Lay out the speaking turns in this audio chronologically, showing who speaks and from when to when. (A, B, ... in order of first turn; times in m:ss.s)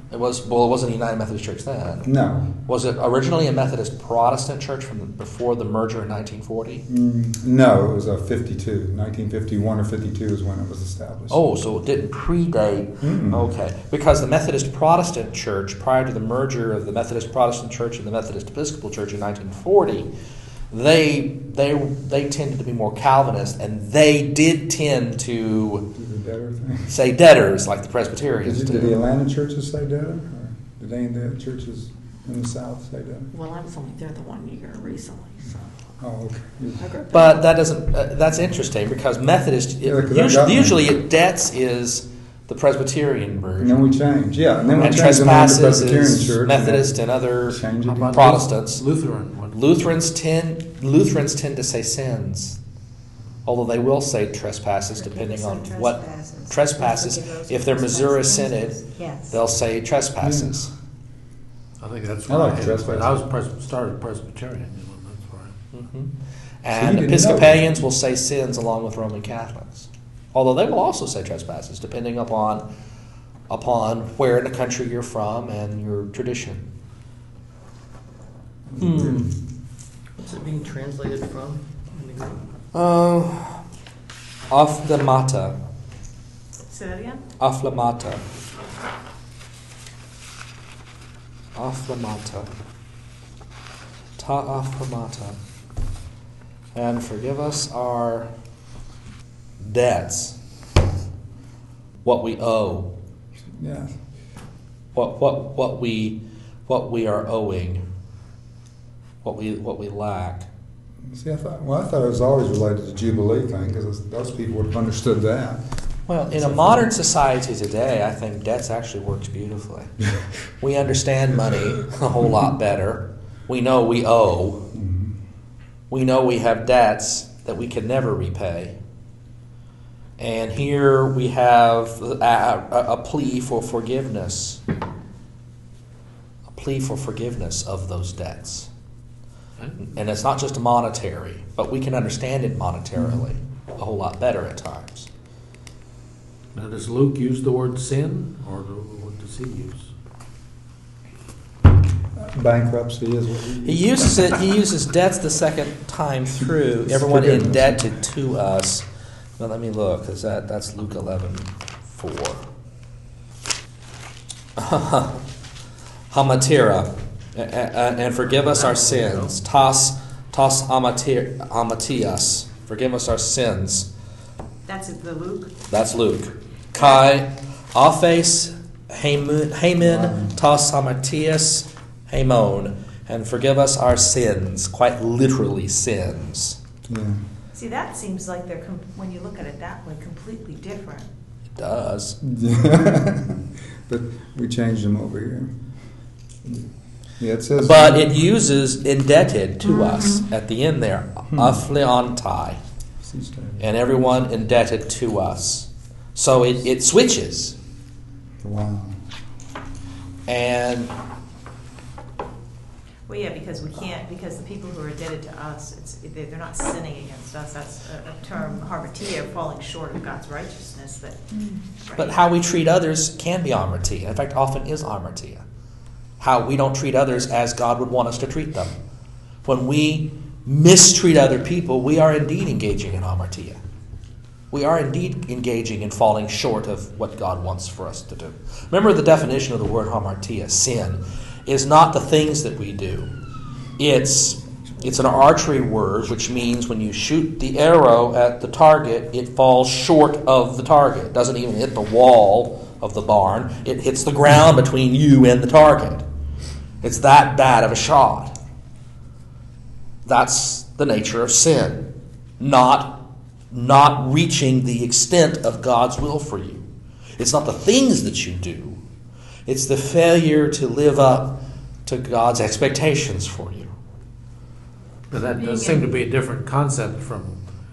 0:00.1-0:02.1 A
0:02.0-0:02.5 B
0:02.7-0:06.8 A
0:06.9-0:11.4 B
0:11.3-0:20.1 A
0:13.0-0:13.5 B
0:20.7-0:25.9 A
0:25.9-0:26.9 B
0:26.9-0:29.0 A
0:28.4-0:33.3 B
0:33.3-0:35.4 C
0:36.0-0:36.8 B
0:36.8-0:37.1 C
0:37.1-0:43.8 A
0:39.8-0:40.9 B
0:43.6-0:48.4 B
0:44.8-0:48.8 A
0:47.8-0:49.7 D
0:49.5-0:52.6 A
0:53.4-1:00.7 A
0:55.0-0:59.3 C
1:00.2-1:00.5 B
1:01.8-1:05.6 D
1:02.3-1:03.2 B
1:05.7-1:12.7 A
1:06.7-1:07.6 B
1:13.5-1:16.7 A
1:18.7-1:19.3 B
1:18.8-1:19.3 A
1:20.2-1:22.4 E
1:22.7-1:23.6 A
1:24.5-1:25.6 A
1:26.7-1:27.2 F
1:27.4-1:28.2 A
1:31.6-1:32.5 A
1:34.2-1:35.4 A
1:36.8-1:38.3 A
1:39.6-1:40.4 A
1:42.0-1:42.9 A
1:43.6-1:44.0 B
1:44.9-1:47.8 A
1:49.2-1:50.5 A
1:51.1-1:55.6 B
1:56.1-1:59.9 A
1:56.3-1:56.9 B
2:00.6-2:04.7 A
2:04.7-2:05.2 B
2:05.9-2:08.8 A
2:10.2-2:14.6 A
2:16.5-2:18.7 A
2:19.6-2:19.8 D
2:19.8-2:25.1 A
2:26.5-2:29.9 D
2:32.2-2:34.4 B
2:33.6-2:38.9 A
2:36.8-2:37.9 B
2:39.4-2:42.4 A
2:44.6-2:45.2 A
2:46.1-2:53.9 A
2:48.6-2:49.3 E
2:54.7-2:55.5 F
2:55.7-3:06.6 A
2:59.8-3:00.4 B
3:06.8-3:07.2 B
3:07.5-3:11.1 F
3:11.6-3:12.2 A
3:12.2-3:15.5 B
3:17.2-3:18.2 B
3:17.6-3:22.6 A
3:21.3-3:21.6 B
3:23.0-3:23.6 B
3:23.6-3:27.6 A
3:28.4-3:29.0 B
3:30.3-3:30.9 A
3:33.1-3:41.3 F
3:41.8-3:42.2 F
3:42.0-3:45.4 A
3:46.2-3:48.7 A
3:49.4-3:53.6 A
3:54.5-4:03.1 A
4:03.8-4:16.0 A
4:16.8-4:18.4 A
4:20.0-4:26.6 A
4:27.2-4:28.8 A
4:29.5-4:33.7 A
4:35.1-4:37.4 D
4:35.2-4:36.0 C